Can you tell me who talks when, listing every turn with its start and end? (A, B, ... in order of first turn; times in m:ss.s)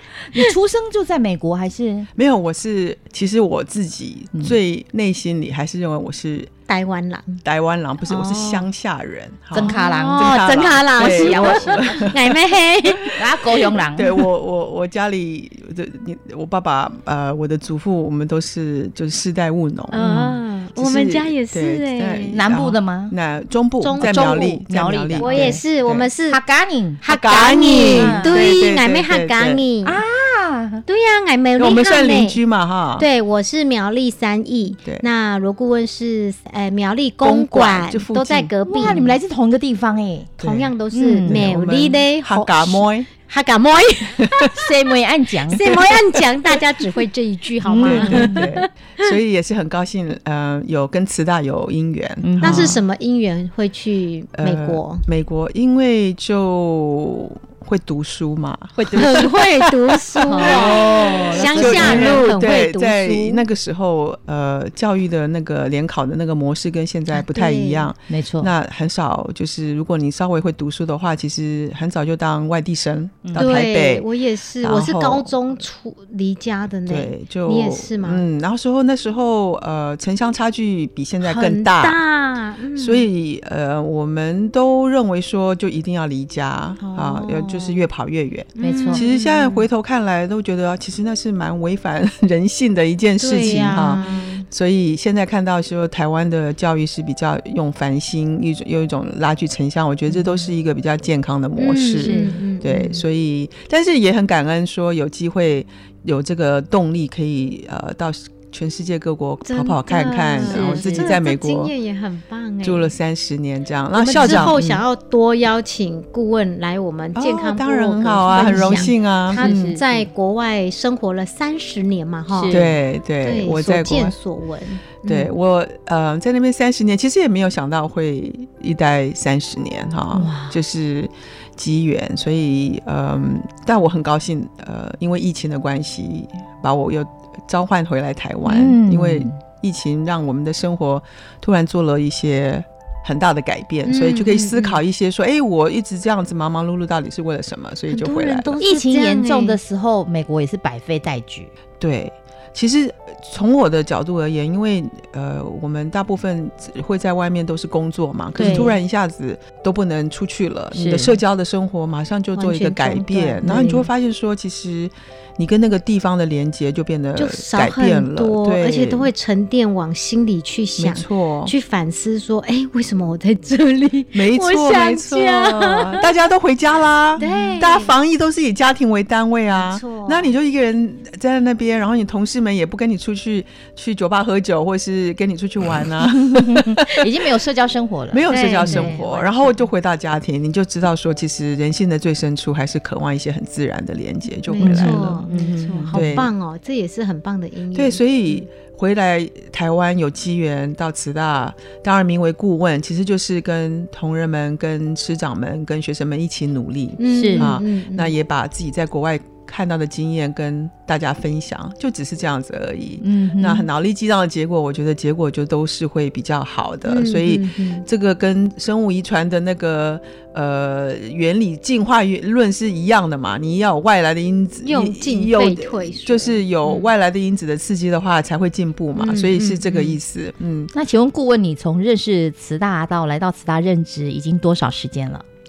0:00.3-0:02.1 A
0:02.2-0:06.5 B
0:06.7-0:07.4 C
0:07.4-0:12.4 B
0:08.1-0:08.7 C
0:09.5-0:12.1 A
0:09.6-0:13.2 C
0:13.1-0:14.2 A
0:14.0-0:26.1 B
0:19.9-0:22.4 C
0:20.0-0:20.3 A
0:22.3-0:23.1 A
0:23.8-0:24.5 C
0:24.0-0:25.6 A
0:25.2-0:26.4 C
0:26.3-0:28.4 A
0:27.0-0:30.0 C
0:27.1-0:29.6 B
0:29.8-0:30.8 A
0:30.9-0:32.4 C
0:31.6-0:33.1 B
0:33.0-0:39.2 C
0:37.2-0:39.0 B
0:38.7-0:40.3 A
0:40.4-0:40.7 B
0:40.4-0:44.6 C
0:40.9-0:41.4 A
0:41.3-0:43.1 B
0:44.5-0:45.6 A
0:45.5-0:49.1 C
0:47.6-0:48.4 A
0:47.8-0:52.8 B
0:52.2-0:52.8 A
0:52.4-0:55.0 C
0:54.4-1:14.1 B
0:58.8-0:59.3 A
0:58.9-1:03.4 C
1:00.3-1:02.2 A
1:07.1-1:07.9 C
1:08.1-1:08.5 A
1:13.2-1:13.5 A
1:13.4-1:18.2 C
1:14.6-1:15.4 B
1:16.9-1:22.0 B
1:21.2-1:23.1 C
1:22.8-1:51.7 B
1:26.8-1:27.8 C
1:28.6-1:29.7 C
1:28.6-1:29.0 A
1:33.2-1:34.5 C
1:33.5-1:33.8 A
1:40.1-1:40.4 C
1:41.6-1:43.0 C
1:42.0-1:42.4 A
1:49.4-1:52.9 C
1:50.4-1:51.1 A
1:52.6-1:54.8 B
1:54.0-2:02.6 C
1:54.2-1:54.6 A
1:57.2-1:59.5 B
1:59.4-2:00.1 A
2:02.3-2:02.7 A
2:02.5-2:04.2 B
2:03.2-2:05.3 C
2:05.1-2:28.6 B
2:10.1-2:10.6 C
2:18.4-2:19.4 A
2:23.8-2:24.8 C
2:27.9-2:29.6 C
2:28.6-2:31.5 A
2:31.8-2:49.1 B
2:38.4-2:38.8 C
2:38.4-2:38.7 A
2:40.7-2:41.2 A
2:42.4-2:43.9 C
2:47.2-2:56.1 C
2:50.8-2:51.5 B
2:54.1-3:07.0 B
2:57.2-2:57.9 C
2:57.2-2:57.5 A
2:59.5-3:00.3 C
3:06.1-3:09.0 A
3:08.1-3:15.3 B
3:08.3-3:09.7 C
3:14.5-3:18.5 C
3:14.6-3:16.3 A
3:15.9-3:16.3 B
3:17.7-3:50.7 B
3:27.0-3:28.1 C
3:27.1-3:27.5 A
3:33.0-3:33.7 A
3:36.9-3:37.9 C
3:44.6-3:46.8 C
3:49.0-3:49.9 C
3:50.7-3:55.2 A